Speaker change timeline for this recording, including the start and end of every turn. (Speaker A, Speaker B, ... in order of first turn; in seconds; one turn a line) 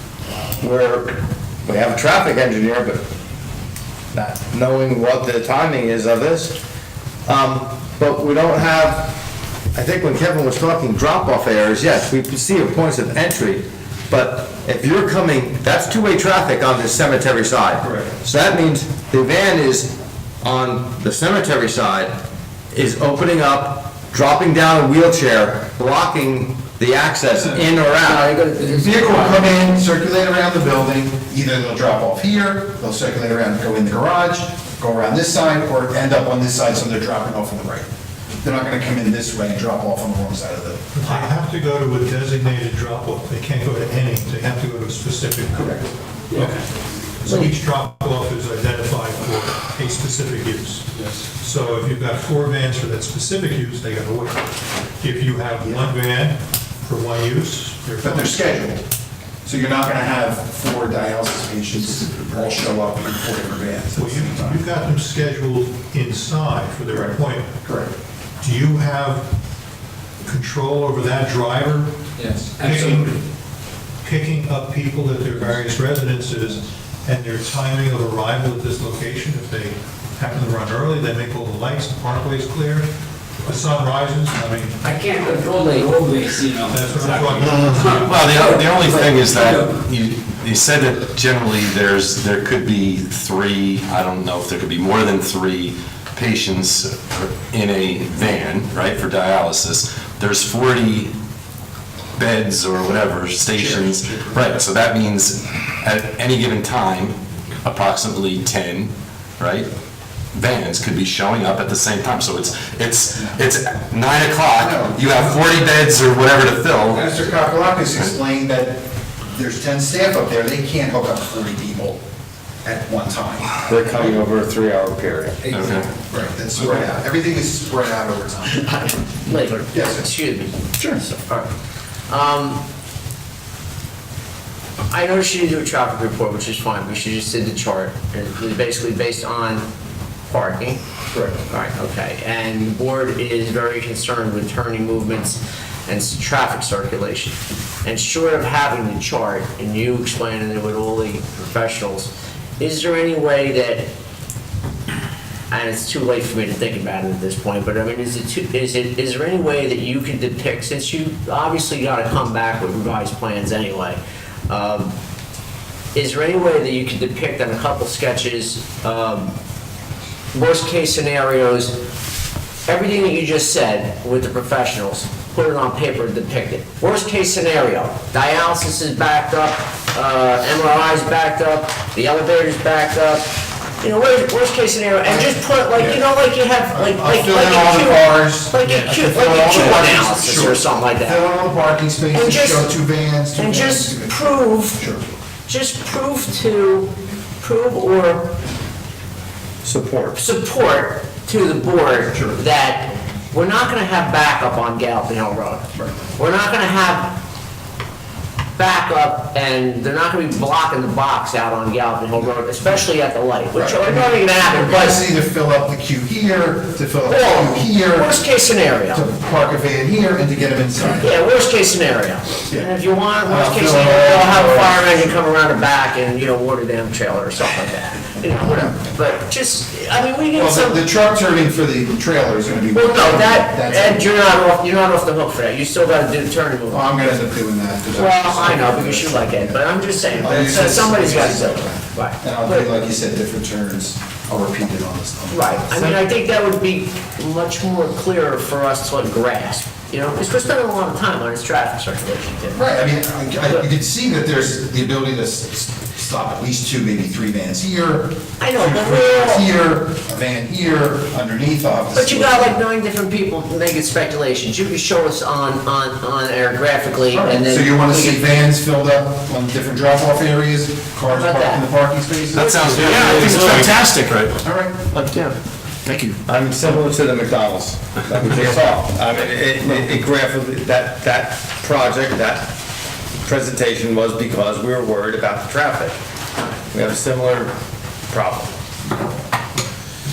Speaker A: 0.6-3.1
Speaker A: 4.1-6.6
Speaker A: 7.3-9.2
Speaker A: 9.7-22.2
Speaker A: 22.7-28.3
Speaker B: 27.9-29.5
Speaker C: 28.6-37.9
Speaker C: 38.4-41.3
Speaker D: 41.0-46.6
Speaker D: 47.2-58.3
Speaker C: 58.0-58.8
Speaker C: 59.5-64.6
Speaker D: 64.0-67.6
Speaker C: 66.9-67.9
Speaker D: 68.4-69.3
Speaker D: 70.2-72.0
Speaker E: 72.2-73.2
Speaker D: 72.6-73.2
Speaker D: 74.0-82.9
Speaker D: 83.4-84.8
Speaker E: 84.8-89.7
Speaker D: 86.7-88.2
Speaker F: 87.9-101.2
Speaker F: 102.2-109.7
Speaker C: 103.5-104.6
Speaker F: 110.3-117.1
Speaker C: 114.6-115.4
Speaker C: 116.9-122.0
Speaker C: 122.6-123.8
Speaker A: 123.7-125.6
Speaker F: 125.5-125.9
Speaker C: 125.6-128.8
Speaker B: 129.2-131.5
Speaker C: 129.7-130.1
Speaker B: 132.1-132.7
Speaker B: 134.9-139.7
Speaker B: 140.3-140.8
Speaker C: 141.1-141.4
Speaker B: 141.5-153.9
Speaker B: 155.5-165.0
Speaker B: 165.9-169.4
Speaker B: 170.3-171.8
Speaker B: 172.7-183.3
Speaker B: 183.8-191.3
Speaker C: 185.1-186.1
Speaker C: 186.7-195.0
Speaker B: 192.1-192.7
Speaker B: 193.3-194.8
Speaker B: 195.5-198.4
Speaker A: 199.6-200.2
Speaker B: 200.1-207.2
Speaker C: 202.1-202.4
Speaker B: 208.6-215.0
Speaker C: 213.5-218.2
Speaker B: 217.1-219.1
Speaker C: 218.9-221.1
Speaker B: 220.9-230.8
Speaker C: 222.5-225.2
Speaker C: 230.3-234.1
Speaker B: 232.7-237.2
Speaker C: 236.7-246.0
Speaker B: 237.9-242.7
Speaker B: 245.3-252.7
Speaker C: 252.5-262.6
Speaker B: 258.4-259.5
Speaker B: 261.9-268.3
Speaker C: 267.1-273.5
Speaker B: 271.1-271.7
Speaker F: 272.3-274.4
Speaker E: 272.8-274.2
Speaker C: 274.4-275.1
Speaker E: 275.1-276.2
Speaker A: 276.3-282.6
Speaker A: 283.2-286.0
Speaker A: 286.7-287.5
Speaker A: 288.1-288.6